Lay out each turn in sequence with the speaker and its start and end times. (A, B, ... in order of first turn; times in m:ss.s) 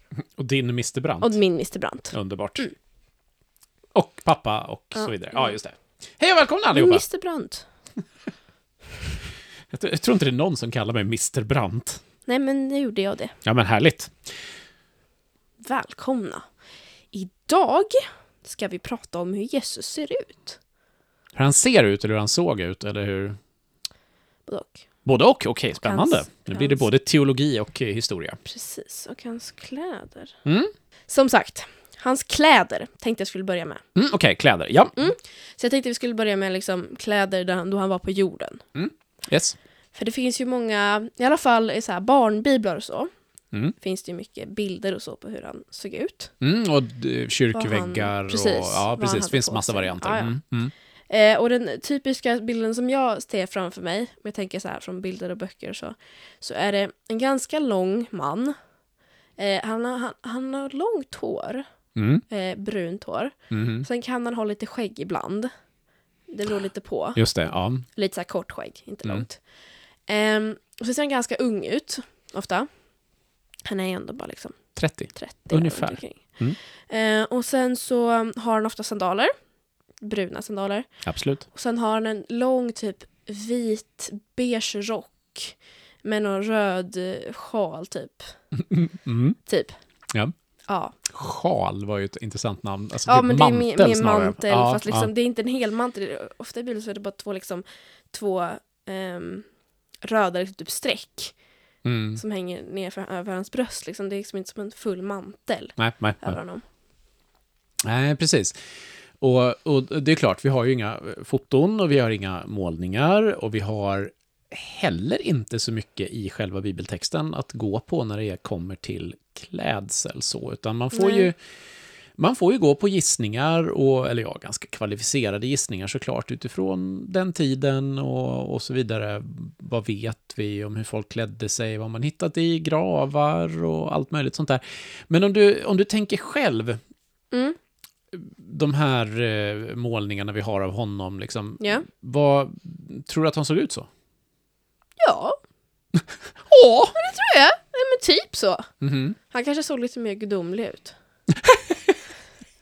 0:00.4-0:01.4 A
0:01.2-0:02.7 B
0:02.1-0:02.7 A
0:04.0-0:07.0 A
0:05.0-0:05.6 B
0:06.7-0:07.6 B
0:09.7-0:12.0 A
0:12.2-0:13.4 B
0:13.4-0:14.1 A
0:15.6-0:16.4 B
0:17.1-0:20.6 B
0:21.4-0:23.4 A
0:24.5-0:24.8 B
0:25.0-0:28.4 A
0:25.8-0:26.8 B
0:28.5-0:30.4 B
0:30.5-0:30.7 A
0:31.1-0:33.8 B
0:33.9-0:35.0 A
0:35.0-0:38.6 B
0:38.8-0:39.6 A
0:39.9-0:43.1 B
0:43.8-0:46.3 B
0:46.4-0:50.7 A
0:47.5-0:50.3 B
0:51.1-0:58.6 B
0:59.4-1:01.6 B
1:02.0-1:02.2 A
1:02.3-1:05.5 B
1:03.5-1:03.9 A
1:06.3-1:07.2 B
1:07.2-1:07.8 A
1:08.0-1:09.4 B
1:10.1-1:12.7 B
1:13.6-1:16.2 B
1:14.8-1:16.6 A
1:16.9-1:19.3 B
1:20.0-1:20.9 B
1:21.0-1:21.4 A
1:21.5-1:28.3 B
1:28.6-1:29.4 A
1:29.4-1:29.8 B
1:30.7-1:31.0 B
1:31.1-1:35.1 A
1:33.1-1:39.5 B
1:40.0-1:41.3 B
1:41.8-1:42.2 A
1:42.2-1:46.6 B
1:45.8-1:46.4 A
1:47.8-1:48.6 A
1:49.2-2:01.4 A
2:00.9-2:01.3 B
2:02.2-2:16.8 A
2:17.3-2:17.6 B
2:18.1-2:23.9 A
2:21.6-2:21.8 B
2:25.0-2:25.4 B
2:26.5-2:26.9 A
2:26.9-2:28.7 B
2:28.8-2:29.2 A
2:29.3-2:31.0 B
2:31.3-2:32.0 A